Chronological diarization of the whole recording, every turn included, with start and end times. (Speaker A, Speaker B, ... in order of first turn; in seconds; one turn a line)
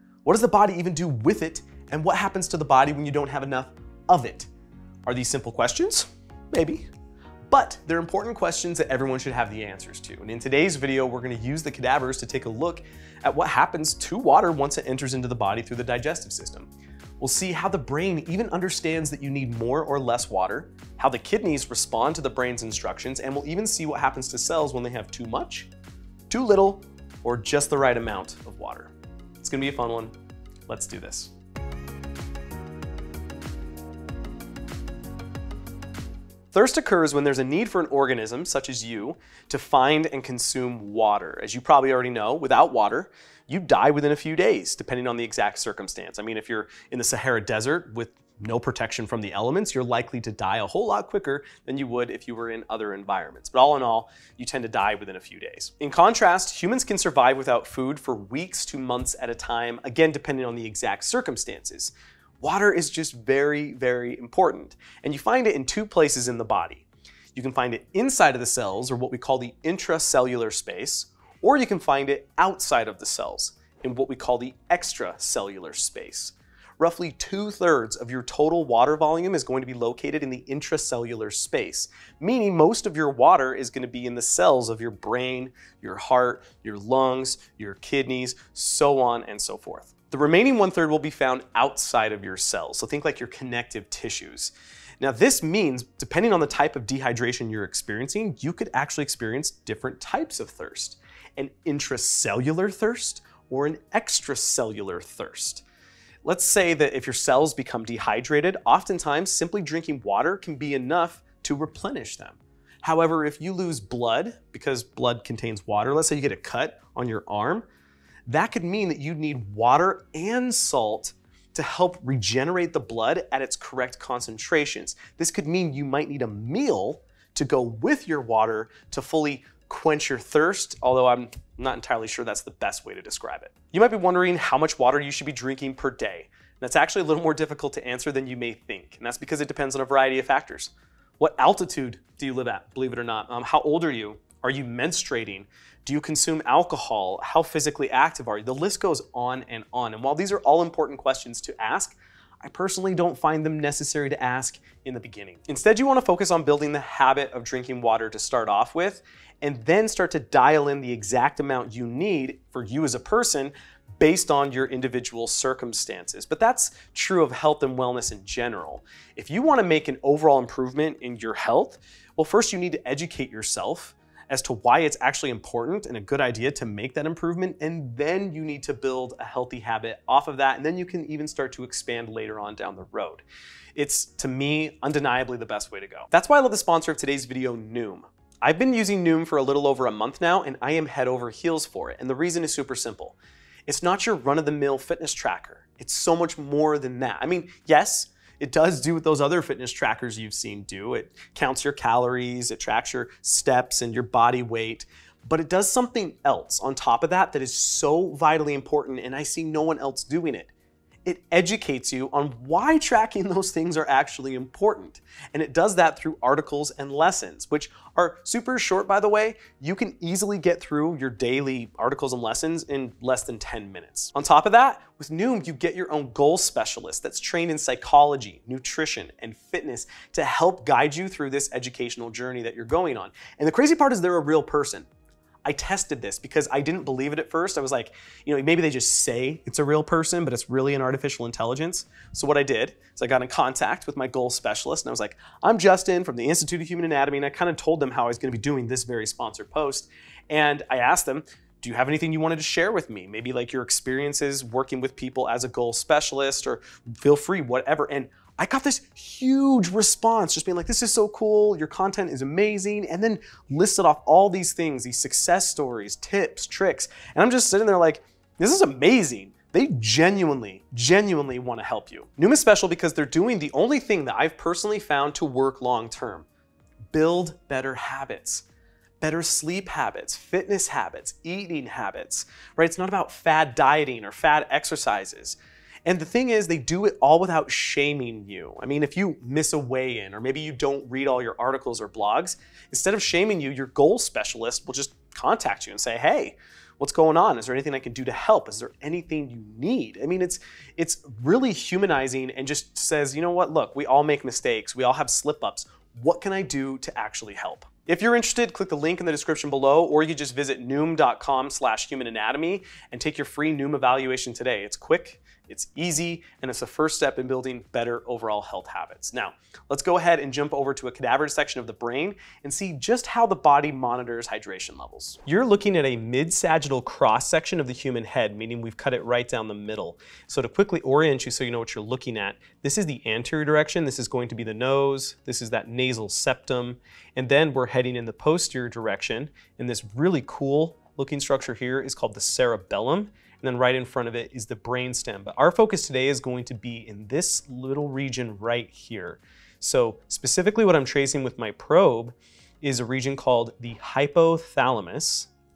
Speaker A: 0.2-4.5
Speaker A: 5.0-6.9
Speaker A: 7.5-16.7
Speaker A: 17.2-25.7
Speaker A: 26.3-30.1
Speaker A: 30.7-31.3
Speaker A: 36.5-105.6
Speaker A: 106.2-117.7
Speaker A: 118.3-183.2
Speaker A: 183.7-193.2
Speaker A: 193.7-210.5
Speaker A: 211.0-234.9
Speaker A: 235.4-276.3
Speaker A: 276.9-278.4
Speaker A: 279.0-355.3